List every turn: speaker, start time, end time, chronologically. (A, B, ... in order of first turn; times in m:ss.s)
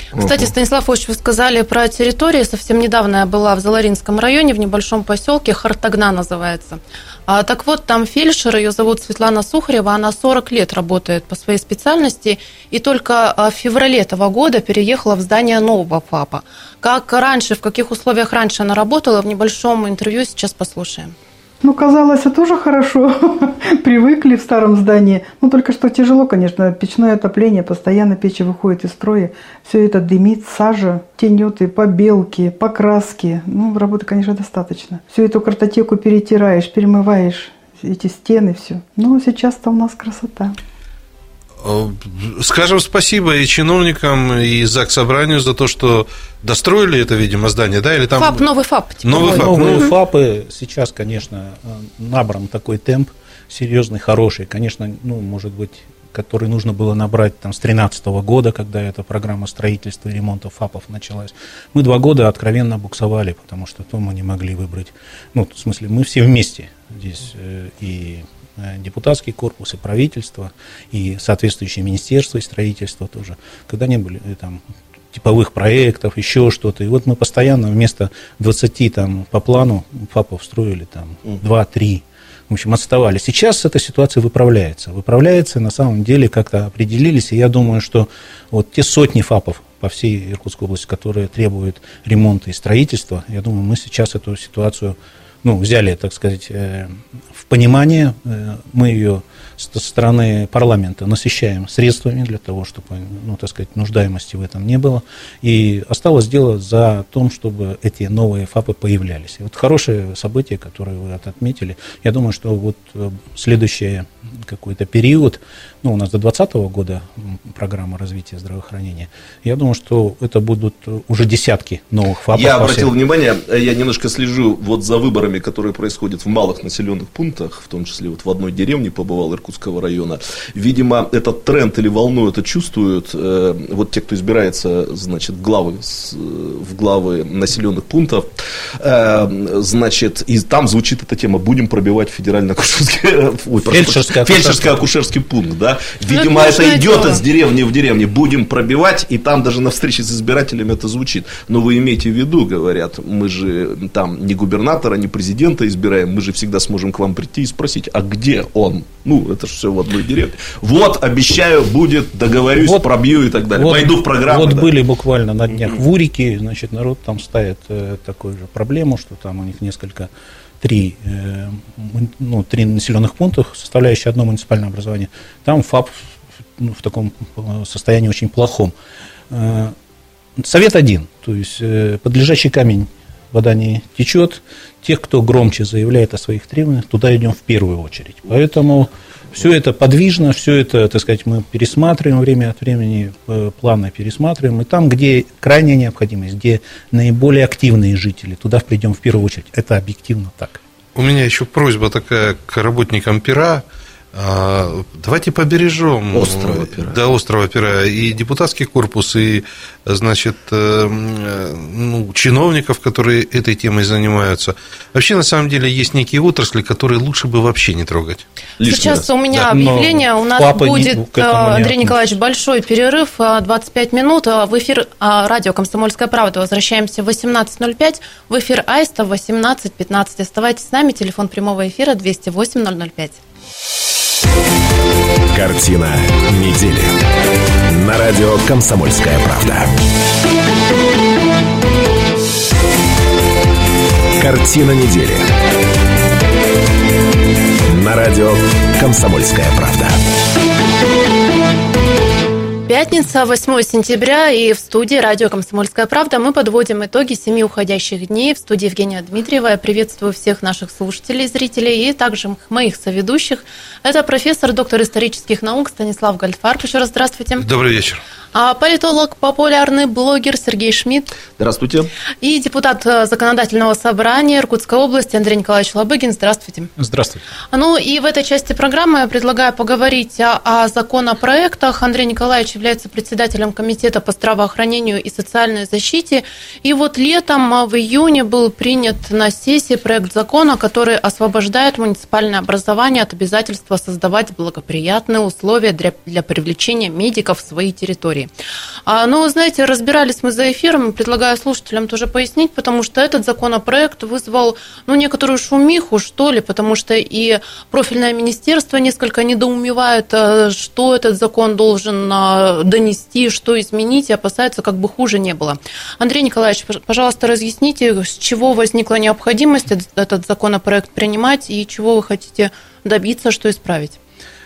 0:00.1-0:00.5 A
0:00.2-0:21.1 B
0:21.6-0:40.6 C
0:41.6-0:48.5 D
0:48.2-0:49.9 B
0:49.0-0:49.9 D
0:49.2-1:14.6 E
1:15.1-2:02.9 E
2:02.3-2:44.7 A
2:23.6-2:24.8 E
2:26.1-2:27.2 B
2:42.6-2:42.9 E
2:43.5-2:50.1 E
2:50.6-2:56.0 E
2:56.6-2:58.7 E
2:59.3-2:59.8 E
3:00.4-3:20.6 E
3:21.0-3:38.2 D
3:26.1-3:27.0 A
3:38.6-3:39.1 A
3:38.6-3:53.2 B
3:39.5-3:42.0 E
3:55.3-3:57.0 F
3:57.7-3:59.7 F
4:04.2-4:05.3 F
4:07.7-4:10.0 F
4:12.7-4:27.4 B
4:27.4-4:28.0 D
4:28.3-4:31.1 B
4:31.4-4:31.9 A
4:32.2-4:36.7 B
4:36.8-4:37.2 E
4:37.5-4:58.3 B
4:58.9-5:24.0 B